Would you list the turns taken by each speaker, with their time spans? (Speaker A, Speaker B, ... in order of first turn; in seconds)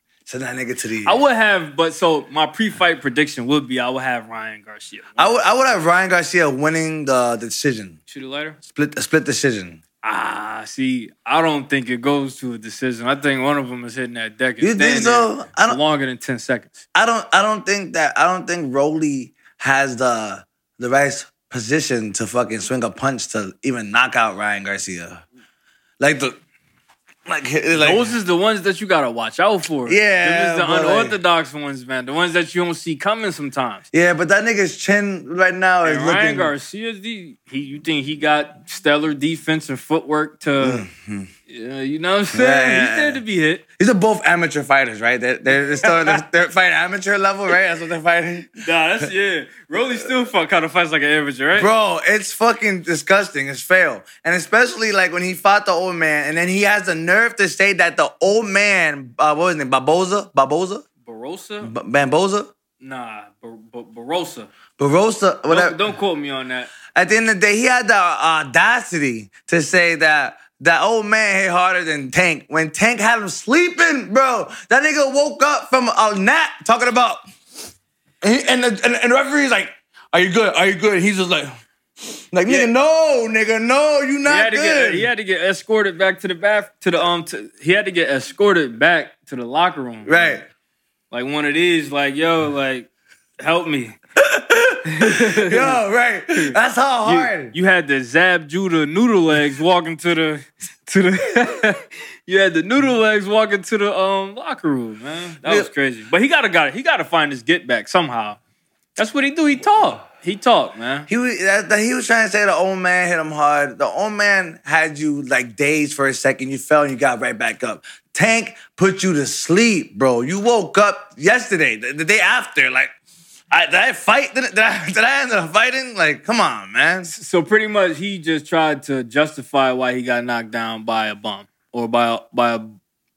Speaker A: 0.2-1.2, 5.2-8.0, 8.6-9.8, 14.6-15.8, 16.9-25.2, 26.0-26.4, 27.3-28.1, 29.9-31.2, 33.9-36.5, 40.6-41.3, 42.3-43.2, 43.8-48.6, 51.5-60.8, 61.6-62.5, 64.8-65.8, 66.9-77.2, 78.2-81.5, 82.3-85.1, 90.0-90.4, 94.3-97.5, 111.1-122.9, 123.5-127.1
Speaker B: 1.0-5.3, 8.1-8.6, 10.0-16.9, 27.7-33.8, 35.8-40.8, 41.5-43.6, 45.6-46.2, 48.6-51.7, 61.0-61.7, 62.8-64.5, 65.5-66.7, 82.5-82.7, 84.2-90.4, 91.1-92.9, 93.4-94.0, 94.8-95.8, 96.3-108.4, 109.0-111.1, 127.0-132.8